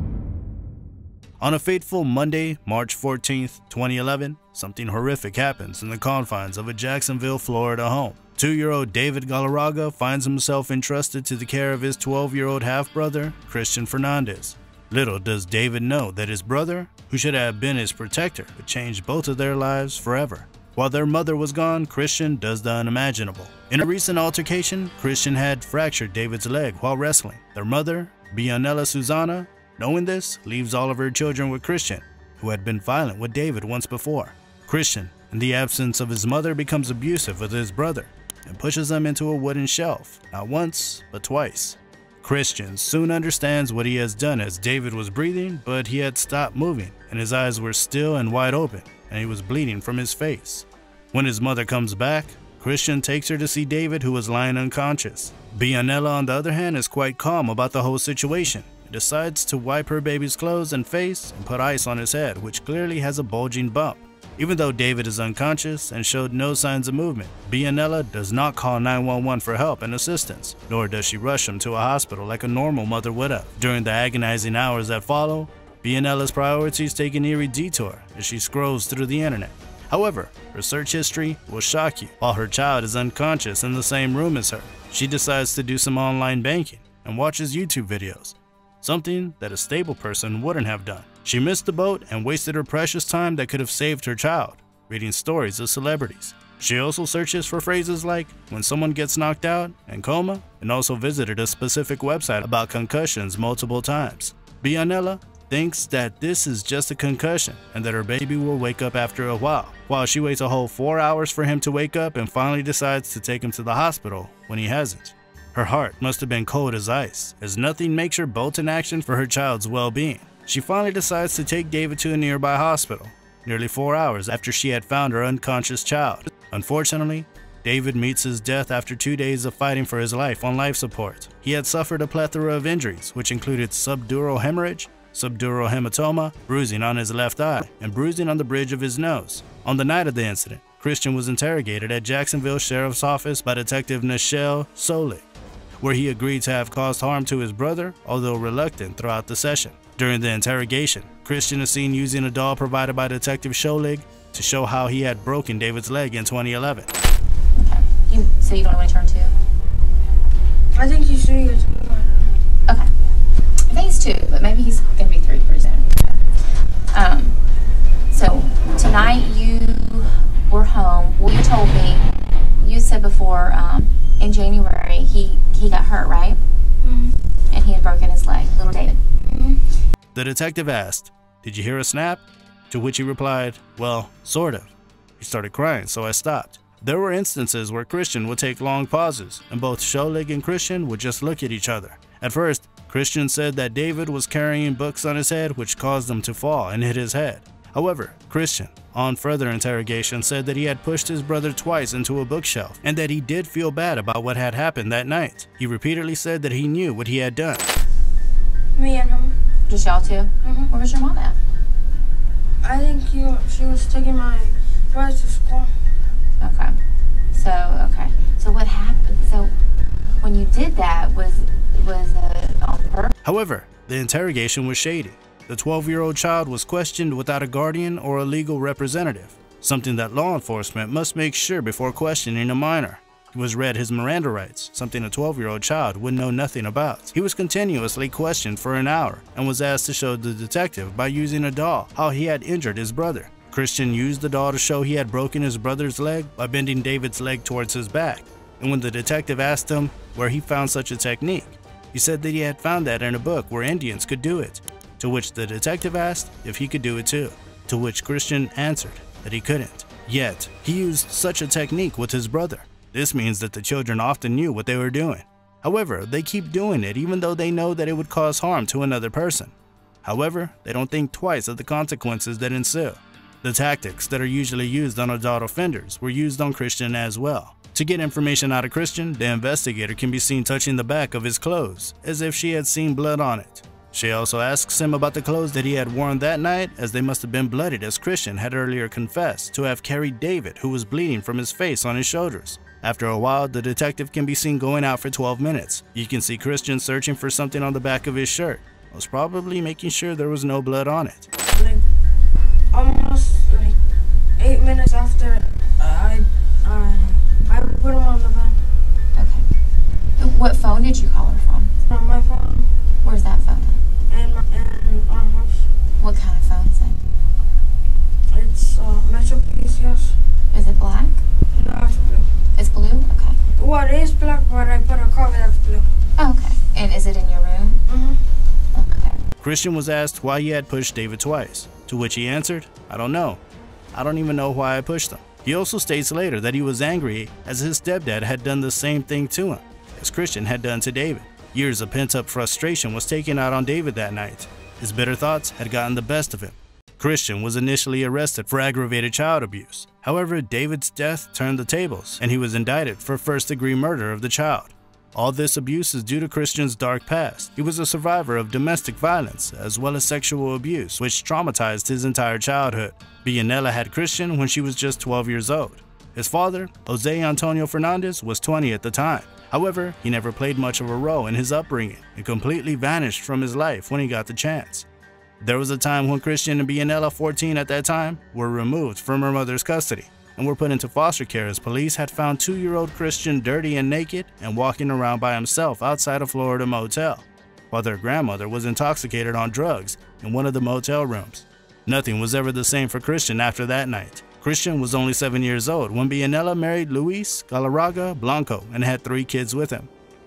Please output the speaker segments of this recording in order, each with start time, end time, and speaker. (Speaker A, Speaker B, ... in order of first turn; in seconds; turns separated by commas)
Speaker A: 1.4-145.2, Speaker A: 145.8-156.9, Speaker B: 157.5-159.3, Speaker C: 160.7-162.3, Speaker B: 163.7-167.3, Speaker B: 168.1-176.4, Speaker C: 176.8-177.2, Speaker B: 177.5-179.0, Speaker C: 179.2-179.6, Speaker A: 180.1-207.7, Speaker C: 208.7-209.3, Speaker B: 209.7-211.3, Speaker C: 210.4-210.7, Speaker C: 212.6-215.7, Speaker B: 216.4-216.8, Speaker B: 217.3-219.5, Speaker B: 220.2-223.1, Speaker A: 223.2-301.3, Speaker C: 301.5-301.8, Speaker C: 302.7-303.8, Speaker C: 304.4-308.6, Speaker B: 309.1-309.4, Speaker B: 310.2-311.7, Speaker C: 311.9-312.7, Speaker B: 313.0-313.8, Speaker C: 314.1-315.7, Speaker B: 316.0-317.0, Speaker C: 318.3-320.2, Speaker B: 320.5-321.2, Speaker C: 321.5-322.3, Speaker B: 322.6-323.4, Speaker C: 323.6-325.9, Speaker B: 326.2-327.8, Speaker C: 327.9-328.2, Speaker B: 328.7-329.2, Speaker A: 329.4-333.4, Speaker A: 333.9-374.9, Speaker A: 375.4-399.9